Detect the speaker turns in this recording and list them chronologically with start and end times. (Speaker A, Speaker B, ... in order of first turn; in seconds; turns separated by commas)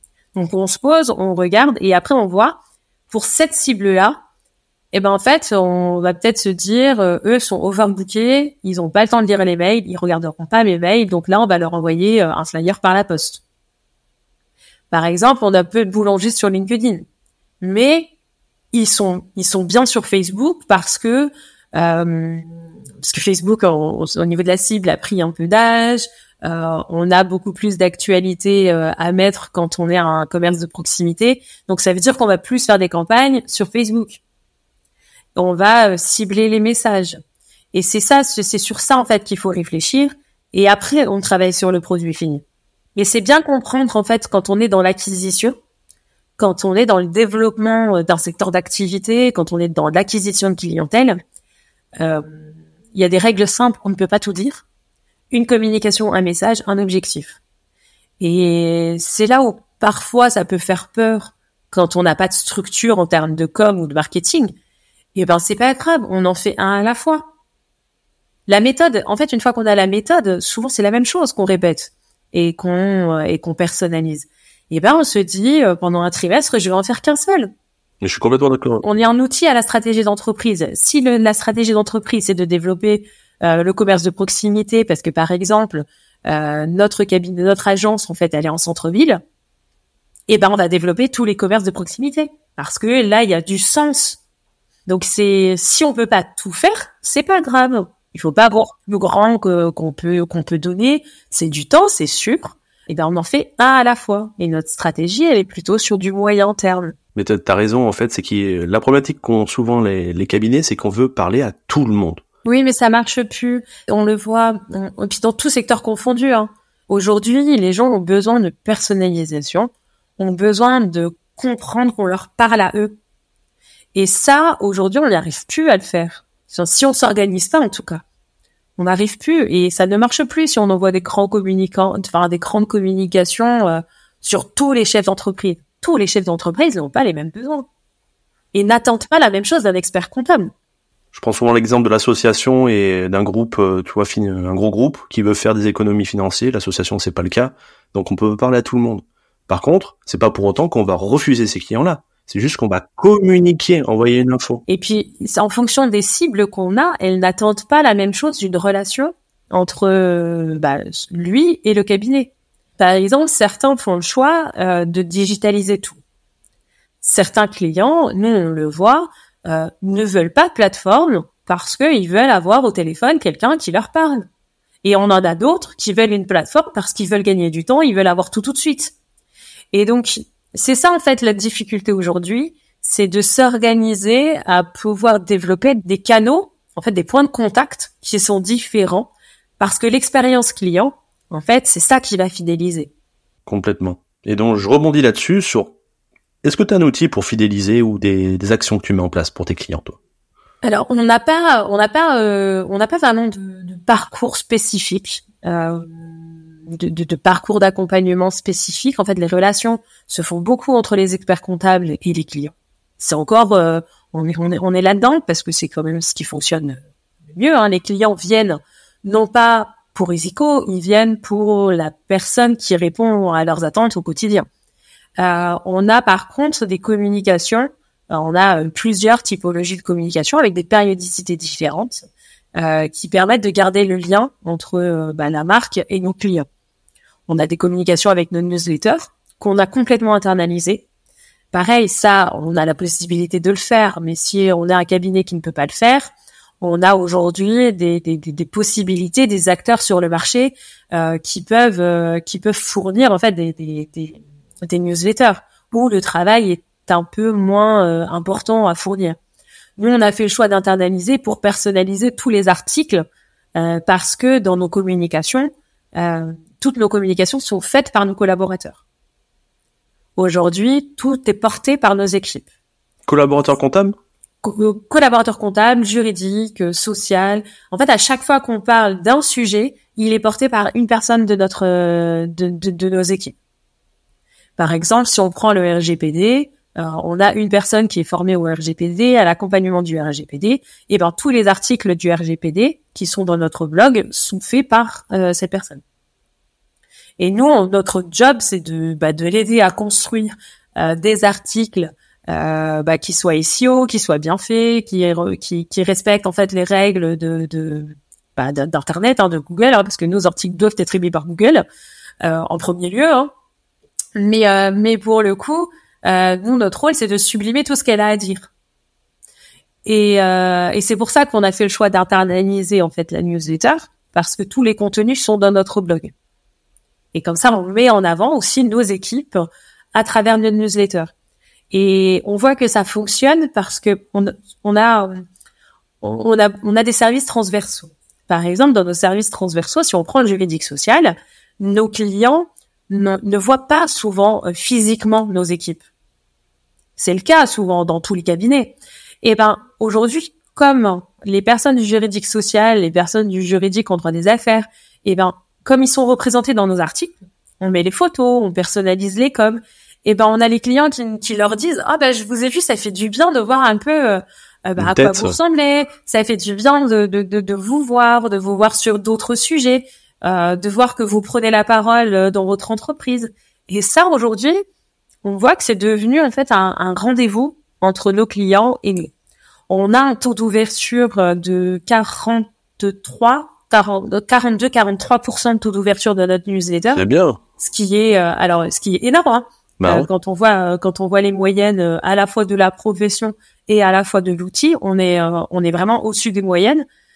Speaker A: 0.3-4.2, Speaker A: 4.9-13.4, Speaker A: 14.9-17.1, Speaker A: 17.6-18.1, Speaker A: 18.7-22.5, Speaker A: 23.0-34.2, Speaker A: 35.4-37.2, Speaker A: 37.7-42.4, Speaker A: 43.0-45.5, Speaker A: 46.4-51.2, Speaker A: 52.0-54.6, Speaker A: 55.3-57.4, Speaker A: 58.2-64.5, Speaker A: 65.2-67.2, Speaker A: 68.5-77.5, Speaker B: 78.0-78.8, Speaker A: 78.8-89.2, Speaker A: 90.3-94.2, Speaker A: 94.9-106.9, Speaker B: 107.2-112.2, Speaker A: 112.5-123.0, Speaker A: 124.0-128.0, Speaker A: 128.8-137.7, Speaker A: 138.5-140.5, Speaker B: 141.1-154.6, Speaker A: 154.7-166.0, Speaker A: 167.0-174.3, Speaker A: 174.8-178.9, Speaker A: 179.7-192.9, Speaker B: 193.5-195.7, Speaker B: 196.4-200.0, Speaker A: 200.6-216.8, Speaker A: 217.3-224.5, Speaker A: 225.2-232.1, Speaker A: 232.6-236.5, Speaker A: 237.3-240.8, Speaker A: 241.5-259.2, Speaker A: 259.8-268.8, Speaker A: 270.2-272.5, Speaker B: 273.1-273.9, Speaker A: 274.4-283.4, Speaker A: 284.6-295.8, Speaker A: 297.2-311.6, Speaker A: 312.2-313.3, Speaker A: 314.2-318.5, Speaker A: 319.9-326.1, Speaker A: 327.1-331.1, Speaker A: 331.7-335.2, Speaker A: 336.0-345.8, Speaker A: 347.0-374.6, Speaker B: 364.8-365.4, Speaker A: 375.2-379.1, Speaker A: 379.7-387.0, Speaker B: 386.9-387.4, Speaker A: 387.6-396.9, Speaker B: 389.8-390.1